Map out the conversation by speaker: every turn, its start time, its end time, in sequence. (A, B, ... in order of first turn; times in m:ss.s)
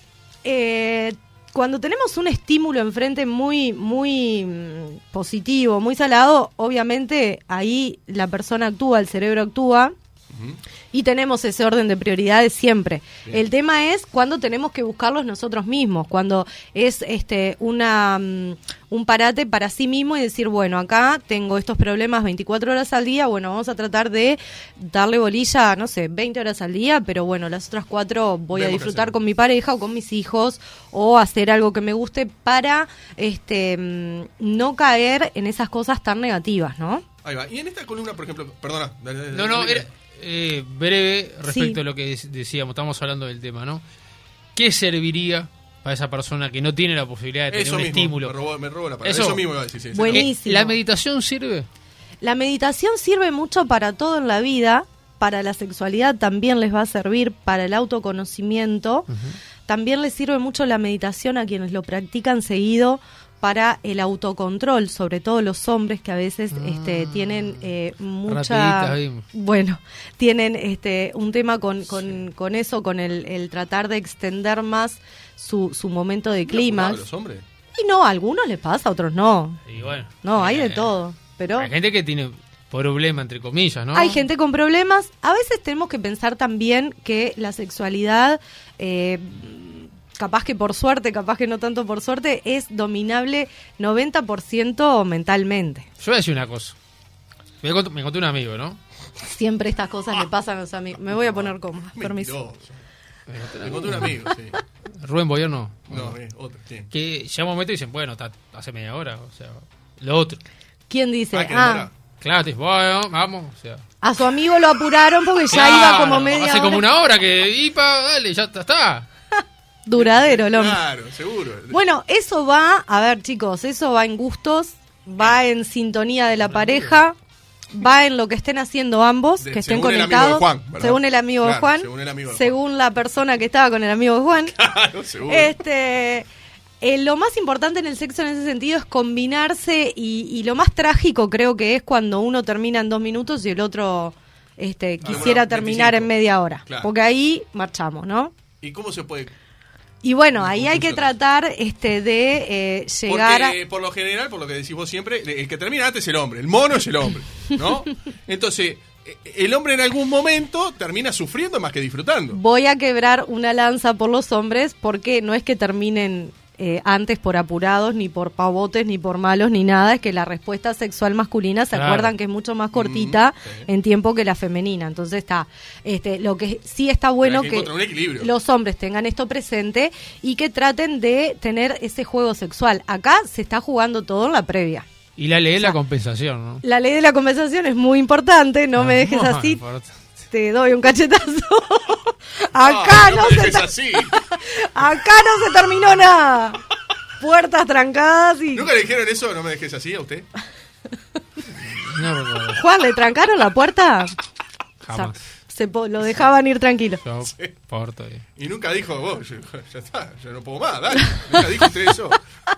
0:00.4-0:09.9 A
0:10.3-0:10.6 B
0:10.9-0:37.0 A
0:28.5-0:29.1 B
0:37.2-0:39.9 B
0:39.3-0:43.8 C
0:41.4-0:41.8 A
0:44.5-0:48.3 C
0:47.5-0:50.3 B
0:49.0-0:49.4 C
0:49.9-0:50.7 A
0:50.1-0:51.7 C
0:52.2-0:59.1 A
0:59.1-0:59.4 C
0:59.6-1:17.0 A
1:06.5-1:07.6 C
1:08.3-1:09.2 C
1:16.5-1:17.4 B
1:17.7-1:19.6 A
1:19.7-1:20.9 C
1:20.2-1:21.7 A
1:21.6-1:24.2 C
1:23.9-1:35.9 A
1:36.0-1:36.8 C
1:37.6-1:38.8 C
1:39.2-1:42.4 A
1:41.1-1:42.8 B
1:43.3-1:44.2 C
1:43.6-1:44.6 B
1:45.0-1:46.1 C
1:45.9-1:46.9 B
1:46.9-1:50.4 C
1:50.9-1:51.9 A
1:51.3-1:51.9 B
1:52.2-1:53.8 C
1:54.0-1:56.8 A
1:55.5-1:59.0 C
1:59.8-2:00.8 A
2:00.0-2:01.8 B
2:01.7-2:07.2 A
2:06.5-2:06.9 C
2:07.7-2:14.6 A
2:09.4-2:12.6 B
2:14.6-2:15.5 B
2:15.3-2:16.3 A
2:16.8-2:28.3 A
2:25.0-2:26.1 B
2:28.6-2:29.3 B
2:30.0-2:33.6 A
2:30.4-2:31.1 B
2:33.1-2:42.4 B
2:42.3-3:04.8 A
2:51.7-2:52.1 C
2:52.7-2:53.7 B
2:57.2-2:58.3 B
3:05.2-3:06.6 C
3:06.6-3:09.6 A
3:08.8-3:10.0 C
3:10.3-3:16.6 A
3:12.6-3:14.2 B
3:17.2-3:18.7 A
3:18.5-3:20.3 B
3:21.7-3:22.6 C
3:22.5-3:24.1 A
3:24.8-3:25.2 C
3:24.9-3:27.0 A
3:27.0-3:28.2 C
3:27.2-3:27.5 B
3:28.4-3:32.2 B